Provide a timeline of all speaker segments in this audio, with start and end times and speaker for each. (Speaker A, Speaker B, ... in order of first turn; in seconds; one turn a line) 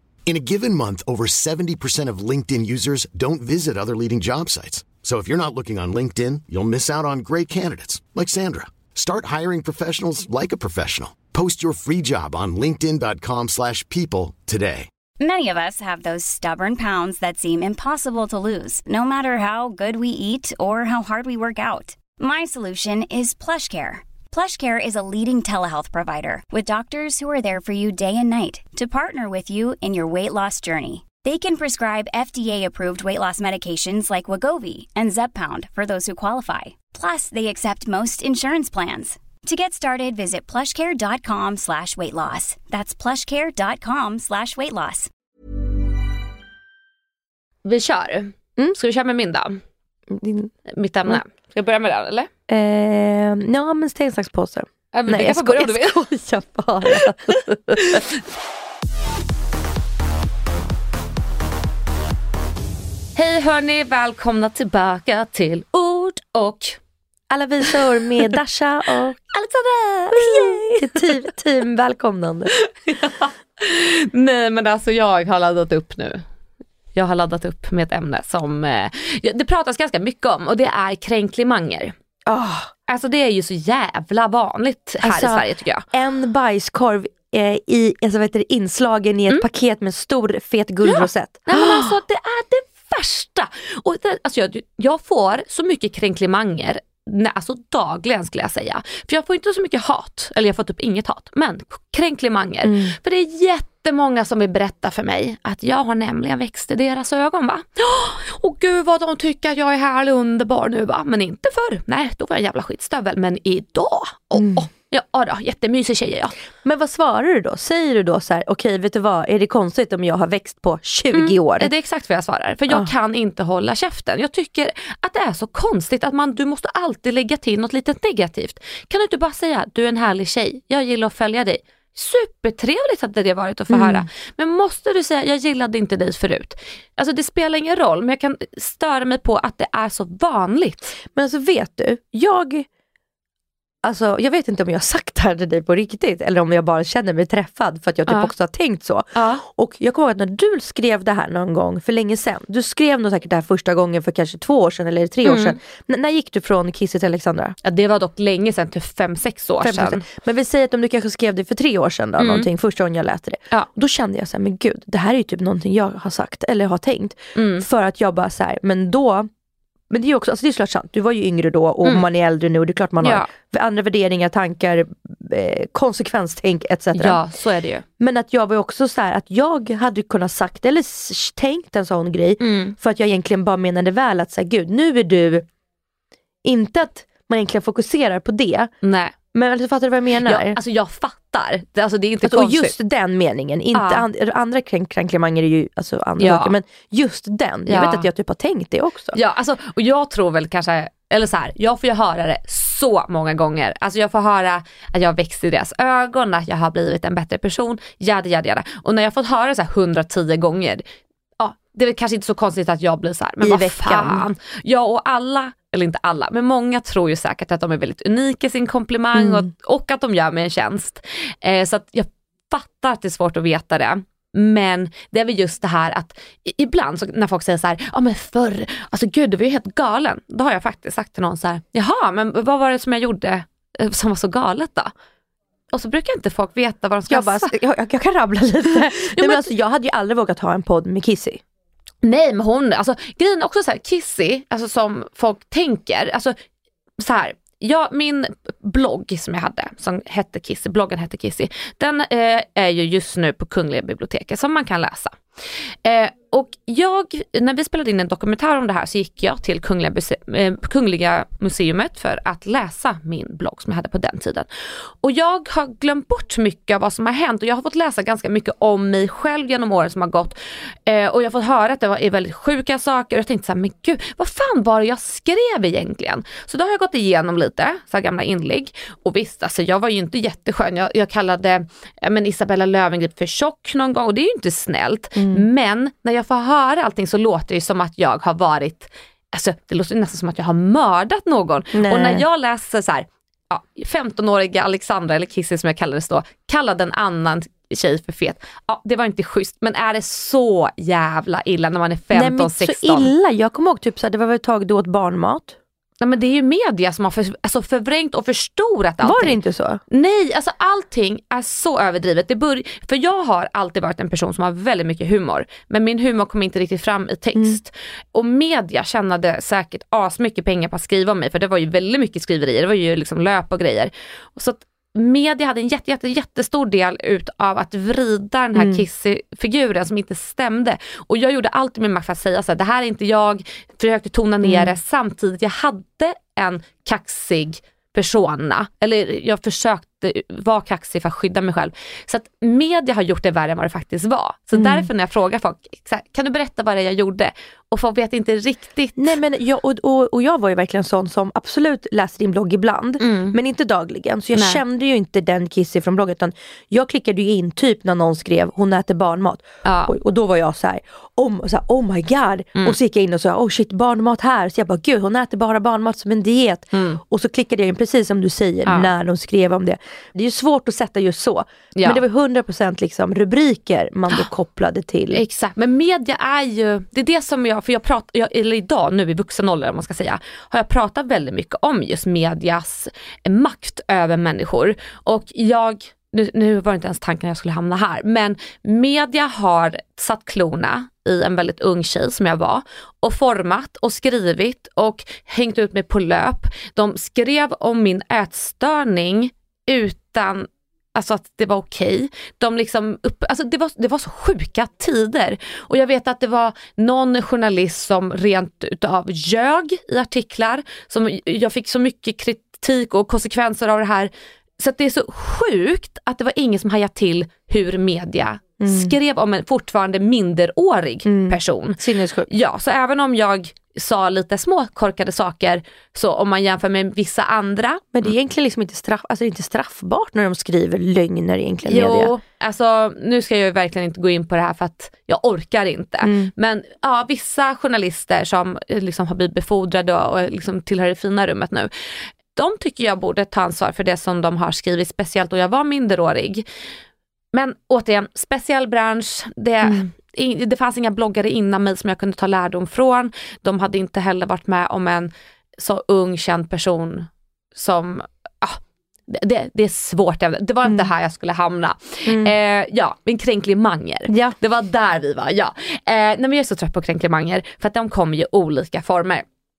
Speaker A: 0.3-14.9
Speaker B: 15.2-45.1
Speaker C: 47.6-49.6
Speaker D: 50.1-50.5
Speaker C: 50.7-52.3
Speaker D: 52.5-58.0
Speaker C: 54.9-56.1
Speaker C: 57.0-58.0
Speaker C: 63.2-66.8
Speaker D: 67.3-69.2
Speaker C: 69.3-71.1
Speaker D: 70.1-72.5
Speaker C: 72.6-76.2
Speaker C: 77.0-81.9
Speaker D: 82.3-82.7
Speaker C: 82.9-85.8
Speaker D: 85.0-92.0
Speaker C: 90.8-116.4
Speaker D: 102.6-103.0
Speaker D: 114.4-114.7
Speaker D: 116.6-121.7
Speaker C: 121.1-141.0
Speaker D: 133.7-134.1
Speaker D: 141.1-142.7
Speaker D: 143.8-157.6
Speaker C: 148.1-148.3
Speaker C: 149.2-149.4
Speaker C: 155.2-155.6
Speaker C: 157.6-160.0
Speaker D: 159.6-169.3
Speaker C: 162.2-162.5
Speaker C: 167.4-167.7
Speaker D: 169.9-177.2
Speaker C: 173.0-173.3
Speaker C: 176.9-177.8
Speaker D: 178.0-185.5
Speaker C: 182.4-182.8
Speaker D: 186.4-188.7
Speaker C: 188.8-189.2
Speaker D: 189.3-190.6
Speaker C: 190.2-192.8
Speaker D: 192.2-199.2
Speaker C: 193.7-194.1
Speaker C: 196.2-196.6
Speaker C: 197.7-198.1
Speaker C: 199.1-210.8
Speaker C: 211.4-234.9
Speaker D: 213.4-214.2
Speaker D: 219.1-219.5
Speaker C: 235.7-237.5
Speaker D: 237.1-241.4
Speaker C: 238.9-239.5
Speaker C: 242.0-246.3
Speaker C: 247.0-255.2
Speaker C: 255.8-264.5
Speaker C: 265.0-303.1
Speaker D: 285.1-285.5
Speaker D: 291.7-292.2
Speaker D: 302.1-305.6
Speaker C: 306.0-309.4
Speaker D: 309.0-309.8
Speaker C: 309.9-349.1
Speaker D: 328.6-328.8
Speaker D: 334.4-334.8
Speaker D: 344.5-344.9
Speaker D: 349.0-375.2
Speaker C: 353.0-353.4
Speaker C: 354.4-354.6
Speaker C: 359.6-359.9
Speaker C: 366.7-367.0
Speaker C: 368.7-368.9
Speaker C: 371.8-372.0
Speaker C: 375.1-427.9
Speaker D: 418.6-418.9
Speaker D: 421.1-422.3
Speaker D: 427.9-432.1
Speaker C: 431.7-441.7
Speaker D: 436.0-436.3
Speaker C: 442.3-446.4
Speaker C: 447.3-469.2
Speaker D: 449.6-449.9
Speaker D: 460.6-460.9
Speaker D: 462.1-462.3
Speaker D: 464.1-464.4